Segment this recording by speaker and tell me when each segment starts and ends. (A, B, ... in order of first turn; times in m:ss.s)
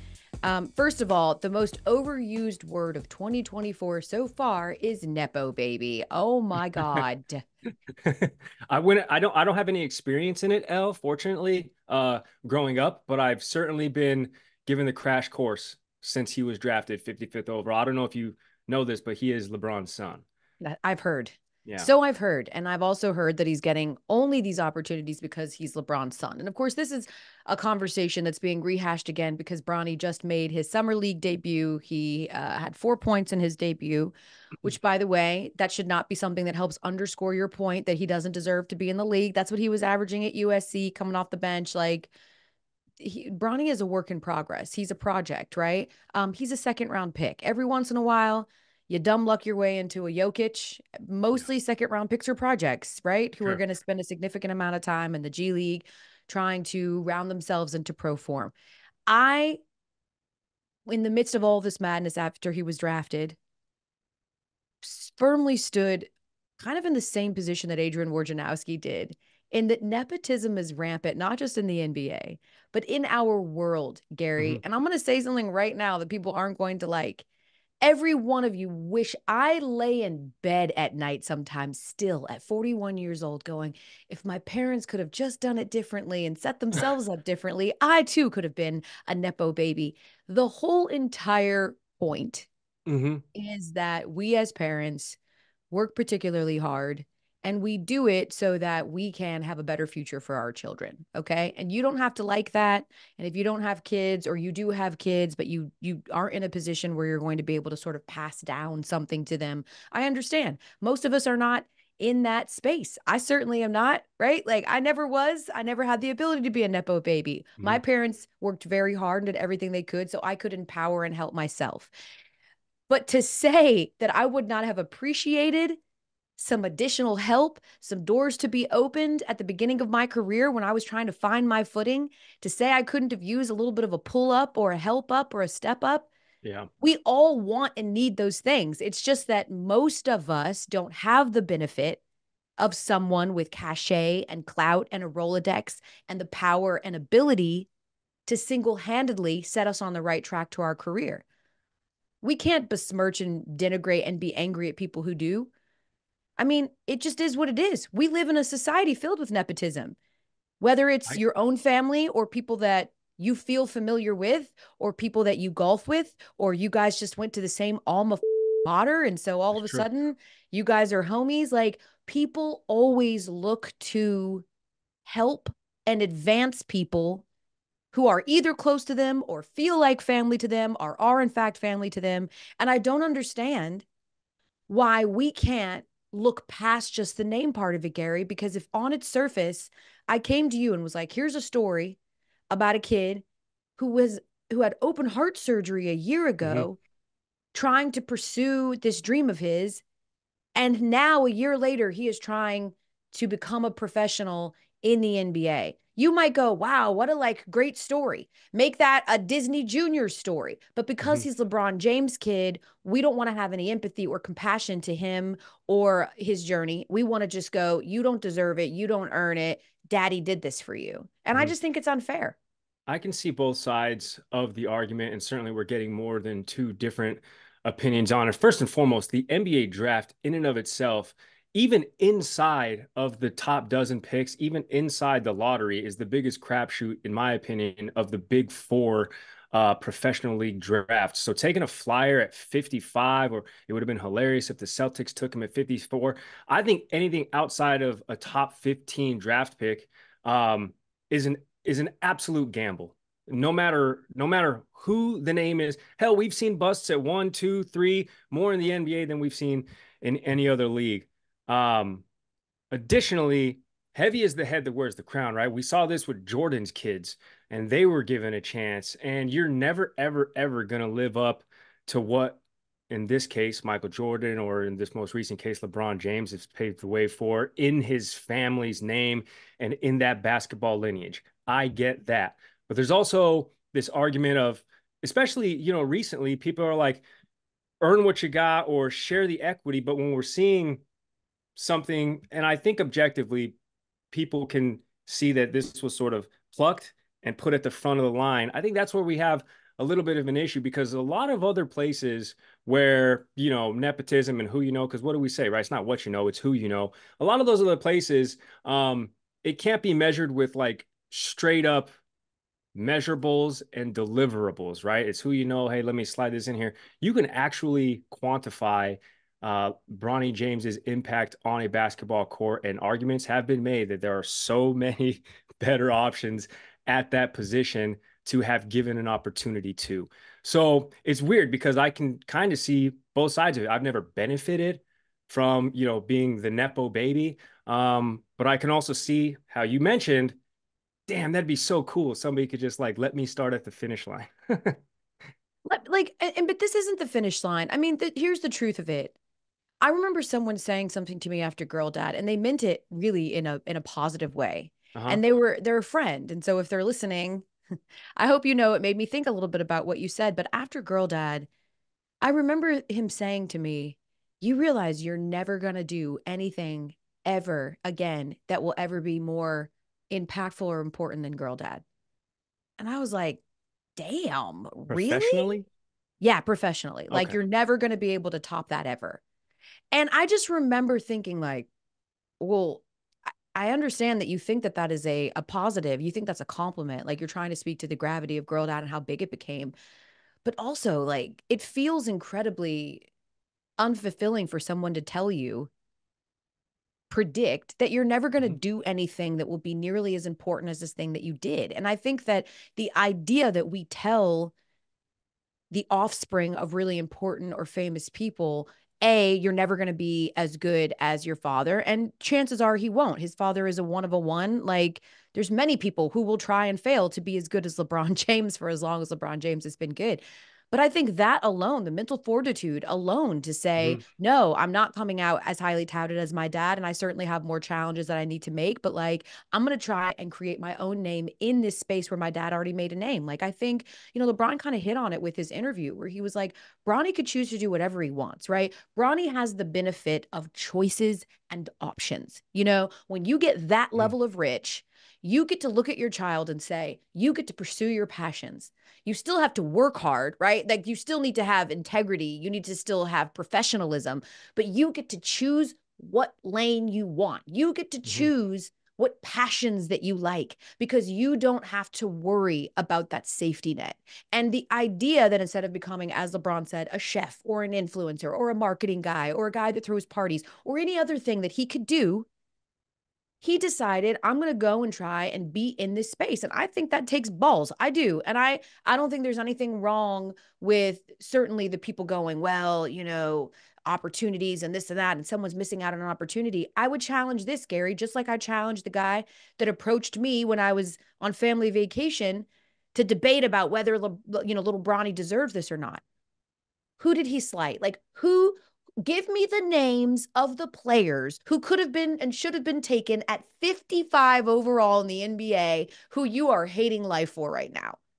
0:00.4-0:07.4 A
0:08.0-0:20.2 B
0:20.6-0:42.1 A
0:43.0-0:58.5 A
0:59.1-0:59.6 A
1:00.9-1:03.4 A
1:04.8-1:17.3 A
1:17.8-1:32.5 A
1:32.9-1:33.2 B
1:33.4-1:35.2 A
1:35.7-2:01.9 A
2:02.9-2:05.8 A
2:06.4-2:16.1 A
2:16.4-2:16.7 B
2:16.8-2:22.0 A
2:22.6-2:27.7 A
2:28.3-2:31.2 A
2:32.2-2:35.5 A
2:36.4-2:40.0 A
2:40.6-2:54.4 A
2:49.5-2:49.8 B
2:55.0-2:57.3 A
2:57.9-3:03.9 A
3:04.7-3:12.0 A
3:12.5-3:13.2 A
3:13.8-3:16.8 A
3:17.5-3:19.8 A
3:20.6-3:42.4 A
3:42.9-4:22.0 B
4:22.7-4:47.0 B
4:47.8-4:50.8 B
4:51.6-4:53.6 B
4:54.1-5:11.9 B
5:12.8-5:40.4 B
5:41.1-5:44.8 B
5:45.7-5:49.2 A
5:49.8-5:57.5 A
5:55.0-5:55.2 B
5:58.2-6:01.5 A
6:02.2-6:11.8 A
6:12.8-6:13.4 A
6:14.0-6:15.5 A
6:14.9-6:15.7 B
6:16.2-6:19.2 A
6:17.1-6:17.4 B
6:19.9-6:21.7 A
6:22.4-6:22.8 A
6:23.5-6:29.7 A
6:30.4-6:33.1 A
6:33.8-6:35.7 A
6:37.1-6:44.5 A
6:45.7-7:52.3 A
7:38.0-7:38.3 B
7:53.4-8:16.0 A
8:17.0-8:28.0 A